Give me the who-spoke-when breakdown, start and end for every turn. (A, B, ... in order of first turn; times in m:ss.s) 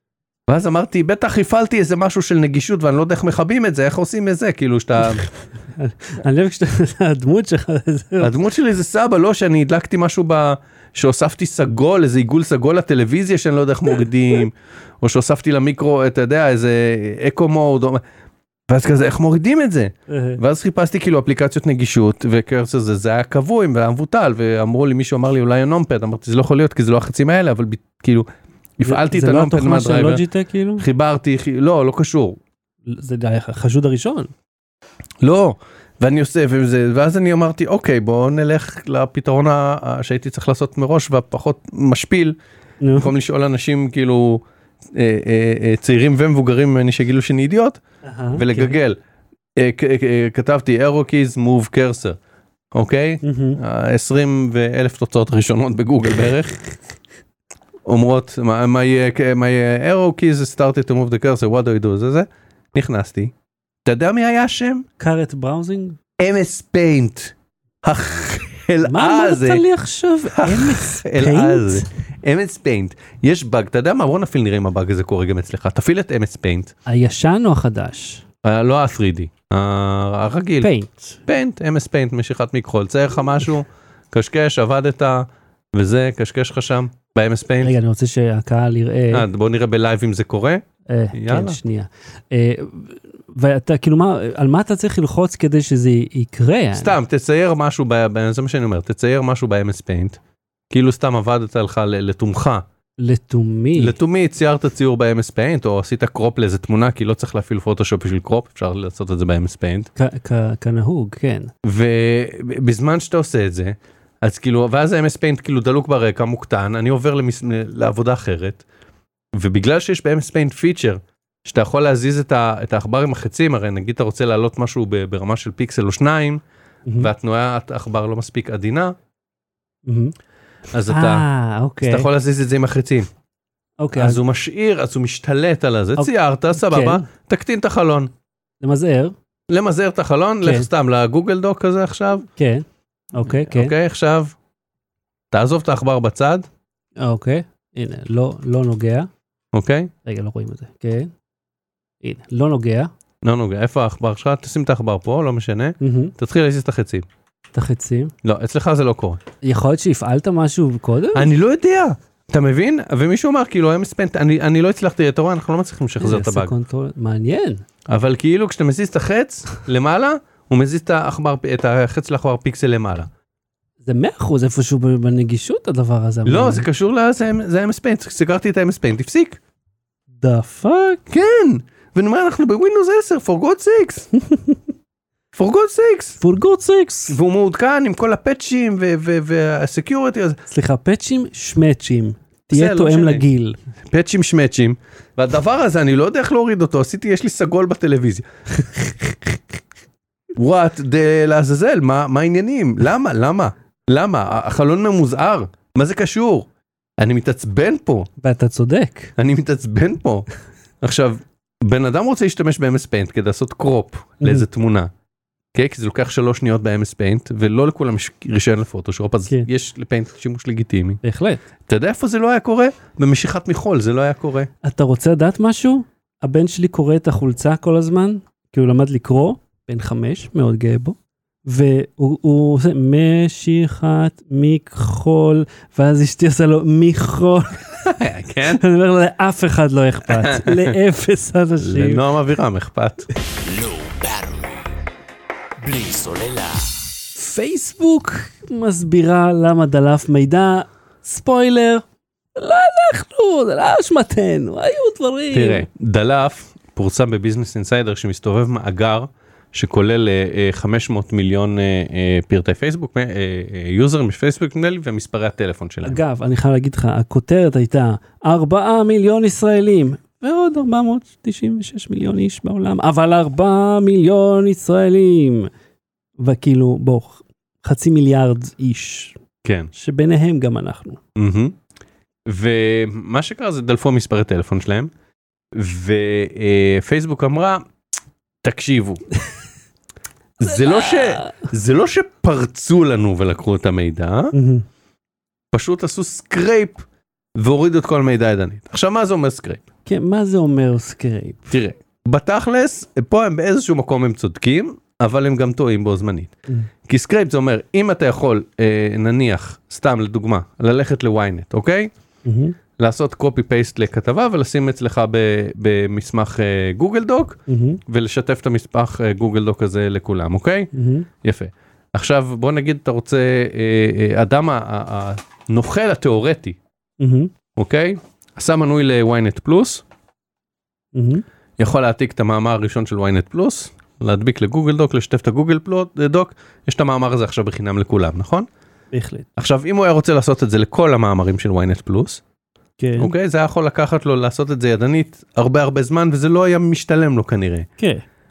0:00.5-0:05.2 A
0:05.1-0:08.4 B
0:08.2-0:18.0 A
0:18.7-0:28.3 A
0:20.1-0:20.4 B
0:28.8-0:30.2 A
0:28.8-0:30.9 B
0:30.8-0:32.4 A
0:32.9-0:34.3 B
0:35.2-0:42.4 A
0:42.8-0:43.1 B
0:43.0-0:47.8 A
0:48.0-0:48.8 B
0:48.3-0:49.0 A
0:49.6-0:52.2 A
0:52.7-0:56.6 A
0:53.2-0:53.6 B
0:57.8-1:03.3 A
1:03.8-1:04.9 A
1:05.0-1:06.0 B
1:06.2-1:09.6 A
1:08.8-1:11.9 B
1:10.3-1:16.7 A
1:16.9-1:18.2 B
1:18.4-1:20.7 A
1:20.6-1:21.2 B
1:21.3-1:27.7 A
1:27.6-1:29.3 B
1:29.1-1:31.6 A
1:30.9-1:37.0 B
1:36.7-1:40.2 A
1:40.7-1:42.6 A
1:43.0-1:44.0 B
1:43.8-1:49.9 A
1:50.0-1:51.5 B
1:51.6-1:58.6 A
1:59.4-2:06.4 A
2:06.9-2:07.1 B
2:07.0-2:09.0 A
2:09.9-2:10.2 B
2:10.7-2:11.3 A
2:10.9-2:12.1 B
2:11.8-2:13.1 A
2:13.8-2:14.2 B
2:14.0-2:18.1 A
2:16.0-2:17.1 B
2:18.6-2:19.1 B
2:19.5-2:22.3 A
2:20.4-2:20.7 B
2:22.4-2:23.7 B
2:23.4-2:24.4 A
2:25.3-2:26.5 A
2:27.0-2:29.1 B
2:29.5-2:29.9 A
2:30.0-2:31.1 B
2:32.0-2:32.9 B
2:33.2-2:37.1 A
2:35.8-2:36.1 B
2:37.5-2:38.1 B
2:38.2-2:39.2 A
2:39.4-2:41.3 B
2:41.1-2:46.5 A
2:46.0-2:47.6 B
2:47.9-2:53.1 A
2:53.8-2:56.7 B
2:56.3-2:59.4 A
3:00.2-3:01.0 B
3:01.1-3:04.1 A
3:04.3-3:04.6 B
3:05.4-3:06.2 A
3:06.2-3:07.2 B
3:07.1-3:10.4 A
3:10.5-3:13.6 B
3:12.5-3:13.3 A
3:13.9-3:18.3 A
3:20.4-3:28.1 A
3:28.2-3:29.1 B
3:29.2-3:30.3 A
3:30.8-3:34.9 A
3:34.2-3:34.5 B
3:35.5-3:41.0 A
3:41.0-3:41.4 B
3:41.7-3:44.5 A
3:44.6-3:57.9 B
3:57.8-3:58.6 A
3:58.5-4:02.0 B
4:00.1-4:00.8 A
4:01.6-4:03.1 A
4:03.3-4:04.7 C
4:05.6-4:06.8 C
4:07.2-4:11.8 B
4:12.4-4:15.7 B
4:15.3-4:26.0 A
4:25.8-4:35.5 B
4:36.2-4:39.2 B
4:39.4-4:39.7 A
4:39.7-4:41.0 B
4:41.2-4:41.6 A
4:42.3-4:44.9 A
4:45.5-4:47.6 A
4:48.4-4:49.0 A
4:50.4-4:54.3 A
4:50.5-4:51.4 B
4:54.3-4:54.6 B
4:55.5-4:56.8 A
4:57.4-4:59.6 A
4:59.9-5:01.5 B
5:01.5-5:06.3 A
5:06.9-5:11.9 A
5:12.2-5:12.6 B
5:12.8-5:20.7 A
5:17.5-5:17.8 B
5:20.7-5:21.1 B
5:21.2-5:26.6 A
5:27.0-5:27.3 B
5:27.5-5:29.8 A
5:30.9-5:31.2 B
5:31.6-5:38.5 A
5:38.9-5:39.3 B
5:39.4-5:42.2 A
5:42.8-5:43.1 B
5:43.0-5:47.7 A
5:47.8-5:48.0 B